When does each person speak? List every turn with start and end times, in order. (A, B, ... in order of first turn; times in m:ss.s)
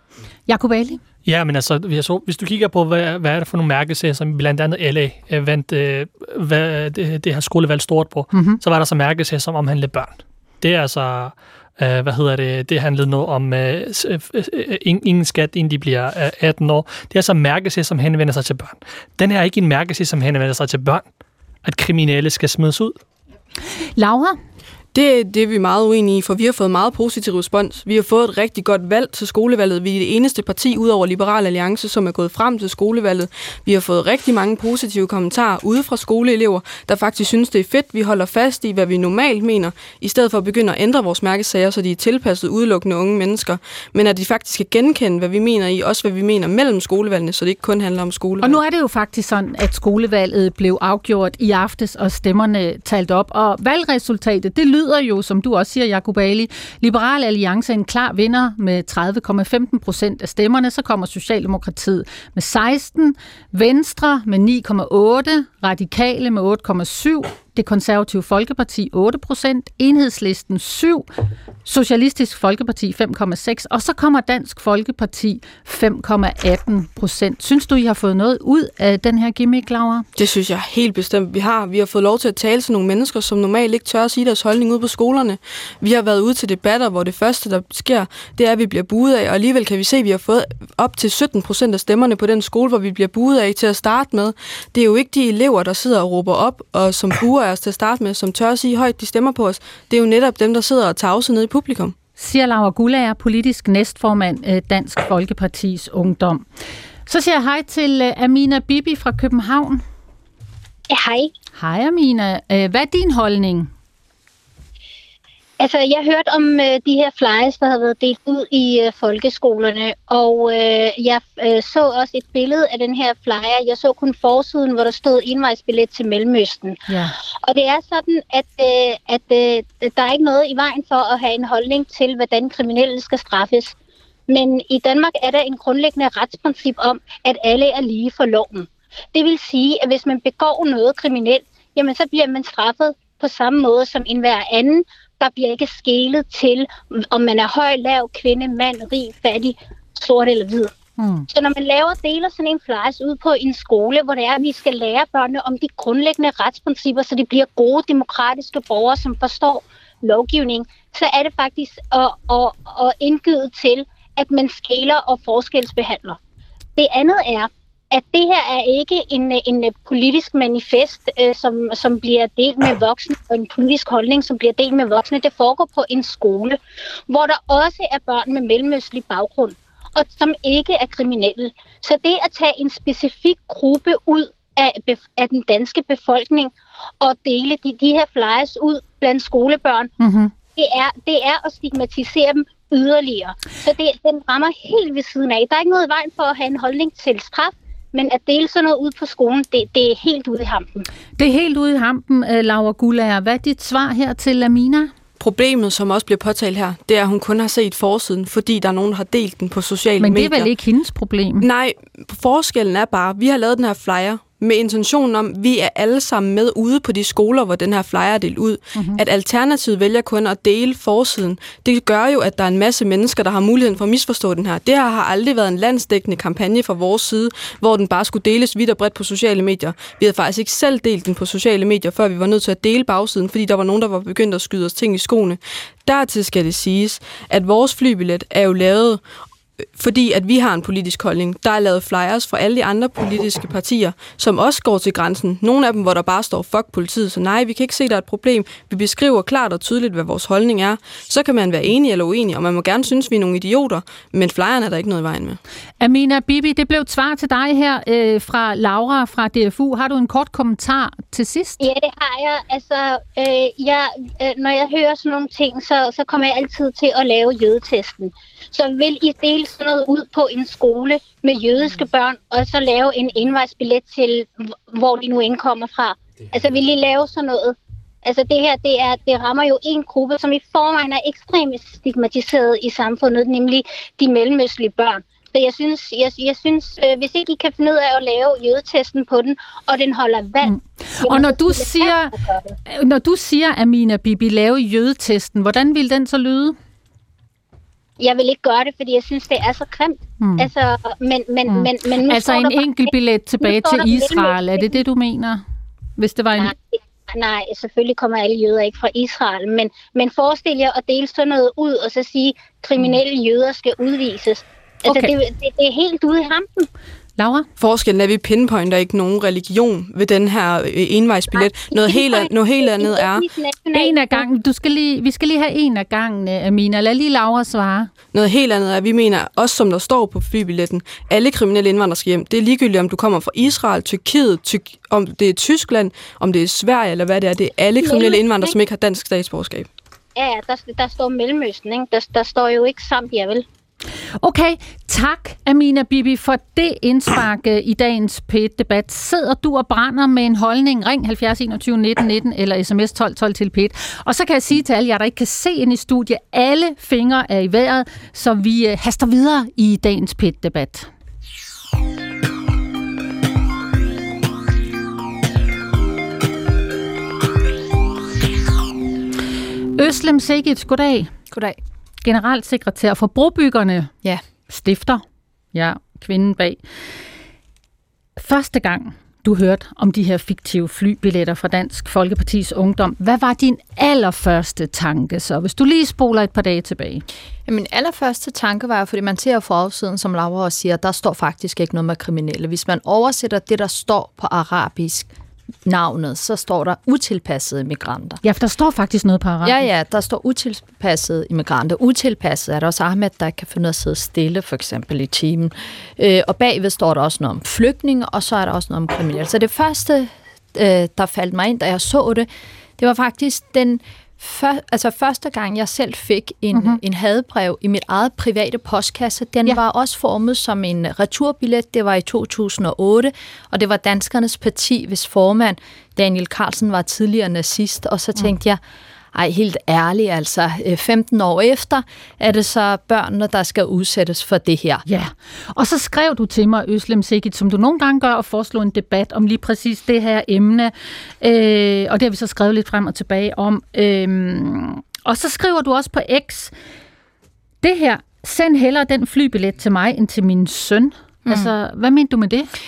0:00.5-0:01.0 A
0:01.2-0:21.0 B
0:08.3-0:08.6 A
0:21.6-0:22.9 B
0:24.0-0:24.4 A
0:24.9-0:48.6 C
0:48.4-1:11.1 A
1:11.6-1:20.0 A
1:20.2-1:41.9 C
1:42.2-1:46.4 A
1:47.1-1:49.8 A
1:50.9-1:51.3 D
1:51.6-1:53.7 A
1:55.6-2:06.8 D
2:06.9-2:07.1 A
2:07.4-2:13.7 D
2:14.3-2:30.7 D
2:31.0-2:31.2 A
2:31.3-2:46.2 D
2:46.8-2:56.6 D
2:57.1-3:06.5 D
3:07.0-3:09.9 D
3:10.0-3:10.3 A
3:10.6-3:20.8 D
3:21.2-3:24.9 A
3:25.2-3:30.5 C
3:30.0-3:31.5 A
3:31.4-3:59.0 C
3:38.7-3:39.0 A
3:59.8-4:15.4 C
4:15.8-4:21.6 A
4:21.6-4:37.5 D
4:38.0-4:52.5 D
4:50.4-4:52.1 A
4:52.6-4:56.6 A
4:58.0-5:04.7 D
5:00.2-5:00.5 A
5:01.5-5:05.4 A
5:06.0-5:06.5 A
5:06.4-5:16.7 D
5:14.8-5:15.1 A
5:17.2-5:17.4 A
5:17.6-5:23.2 C
5:21.3-5:24.2 D
5:23.7-5:27.9 A
5:28.1-5:39.7 C
5:37.8-5:38.6 D
5:40.2-5:43.4 D
5:44.2-6:00.9 A
6:09.8-6:11.1 A
6:11.3-6:11.6 E
6:12.0-6:13.9 A
6:14.5-6:15.0 A
6:15.5-6:16.6 A
6:18.2-6:27.0 A
6:27.4-6:35.1 E
6:35.6-6:38.2 E
6:38.2-6:39.6 A
6:39.4-7:08.6 E
6:56.5-6:56.8 A
7:09.1-7:14.8 E
7:14.8-7:26.5 A
7:27.6-7:32.5 A
7:31.2-7:31.5 E